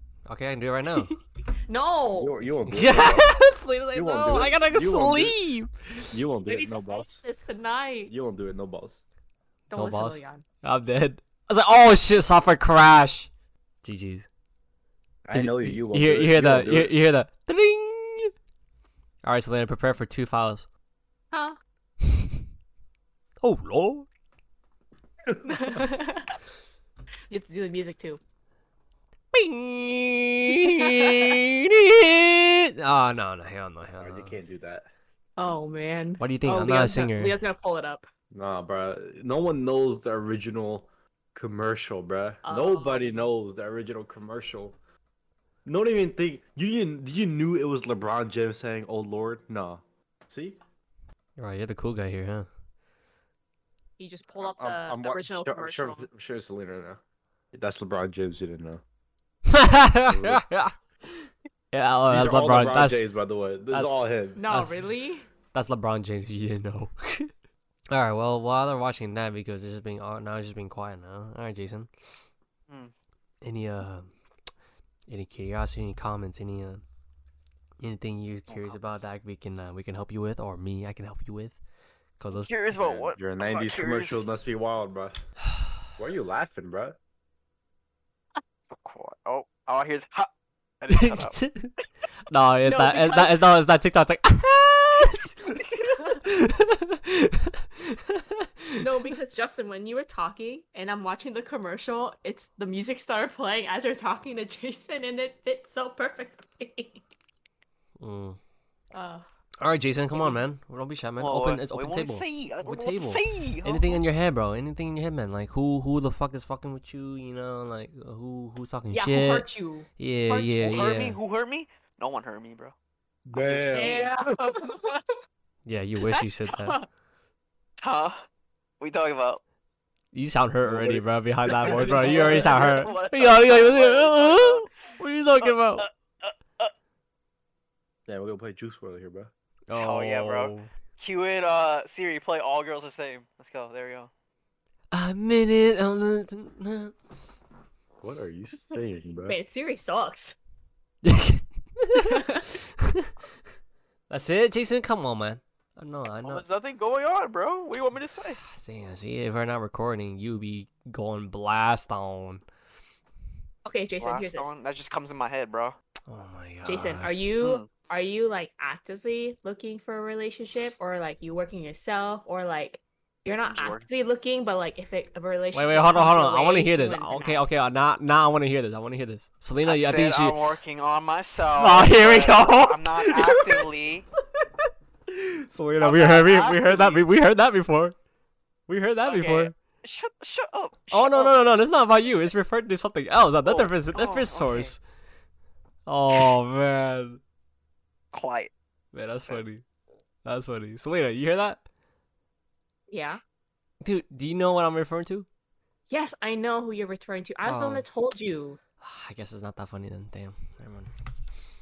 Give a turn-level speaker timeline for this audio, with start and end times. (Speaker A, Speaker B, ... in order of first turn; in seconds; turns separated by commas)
Speaker A: 0.3-1.1, Speaker B: 0.9-2.4, Speaker C: 2.1-3.4, Speaker A: 2.7-6.1, Speaker C: 3.9-5.4, Speaker C: 6.1-7.2, Speaker B: 6.5-8.2, Speaker C: 8.1-9.0, Speaker B: 9.7-10.4, Speaker A: 9.8-13.3, Speaker A: 13.8-14.3, Speaker C: 15.2-16.9, Speaker A: 15.3-18.3, Speaker A: 19.2-20.6, Speaker B: 21.3-21.6, Speaker A: 22.0-22.4, Speaker A: 23.4-24.1, Speaker C: 25.3-25.8, Speaker B: 25.4-26.4, Speaker B: 27.3-28.2, Speaker A: 29.3-34.4, Speaker B: 30.6-31.4, Speaker C: 34.0-34.9, Speaker B: 35.4-38.1, Speaker A: 36.2-37.4, Speaker C: 38.3-44.8, Speaker B: 42.5-43.3, Speaker C: 45.6-50.6, Speaker A: 51.4-52.5, Speaker B: 54.0-56.1, Speaker C: 54.4-57.0, Speaker C: 57.5-58.8, Speaker A: 59.5-63.0, Speaker C: 60.1-60.4, Speaker C: 62.1-64.4, Speaker A: 63.7-64.8, Speaker B: 64.4-65.3, Speaker A: 65.5-67.3, Speaker A: 67.9-72.2, Speaker A: 73.4-74.1, Speaker A: 75.1-76.8, Speaker A: 77.8-81.6, Speaker D: 78.5-78.9, Speaker A: 82.2-83.1, Speaker D: 82.3-84.2, Speaker C: 82.8-85.2, Speaker C: 86.0-87.0, Speaker D: 88.8-90.3, Speaker D: 90.8-91.4, Speaker A: 90.9-91.8, Speaker A: 92.3-98.8, Speaker B: 92.6-93.5, Speaker B: 98.8-107.0, Speaker A: 108.0-108.4, Speaker B: 108.9-109.3, Speaker A: 109.6-121.2, Speaker B: 110.1-110.4, Speaker D: 111.2-114.0, Speaker B: 118.9-121.0, Speaker D: 120.6-122.7, Speaker C: 123.3-124.8, Speaker D: 123.4-124.0, Speaker B: 123.7-125.0, Speaker A: 125.6-126.8, Speaker B: 126.1-126.9, Speaker D: 127.8-128.2, Speaker D: 128.8-129.4, Speaker A: 130.1-135.9, Speaker C: 130.6-132.6, Speaker D: 131.7-134.7, Speaker D: 135.4-136.7, Speaker C: 138.1-139.3, Speaker A: 139.7-140.7, Speaker D: 139.7-144.1, Speaker A: 144.9-146.9, Speaker C: 148.0-149.4, Speaker B: 149.3-150.4, Speaker A: 151.0-153.1, Speaker B: 151.9-152.5, Speaker A: 154.1-156.4, Speaker D: 156.2-158.4, Speaker A: 158.4-162.4, Speaker B: 163.6-164.5, Speaker D: 164.0-165.8, Speaker A: 166.1-167.1, Speaker B: 166.6-177.4, Speaker D: 167.4-167.7, Speaker D: 173.4-173.9, Speaker A: 175.5-180.4, Speaker D: 179.6-184.1, Speaker A: 181.6-183.7, Speaker A: 184.4-188.0, Speaker D: 185.8-187.1, Speaker A: 188.7-189.5, Speaker D: 189.1-191.3, Speaker A: 190.9-194.8, Speaker D: 193.4-194.7, Speaker A: 195.9-197.2, Speaker D: 198.1-198.5, Speaker A: 198.9-199.6, Speaker A: 200.2-201.6, Speaker B: 202.9-203.2, Speaker A: 203.8-205.3, Speaker B: 205.9-208.6, Speaker A: 207.4-207.8, Speaker A: 208.8-210.9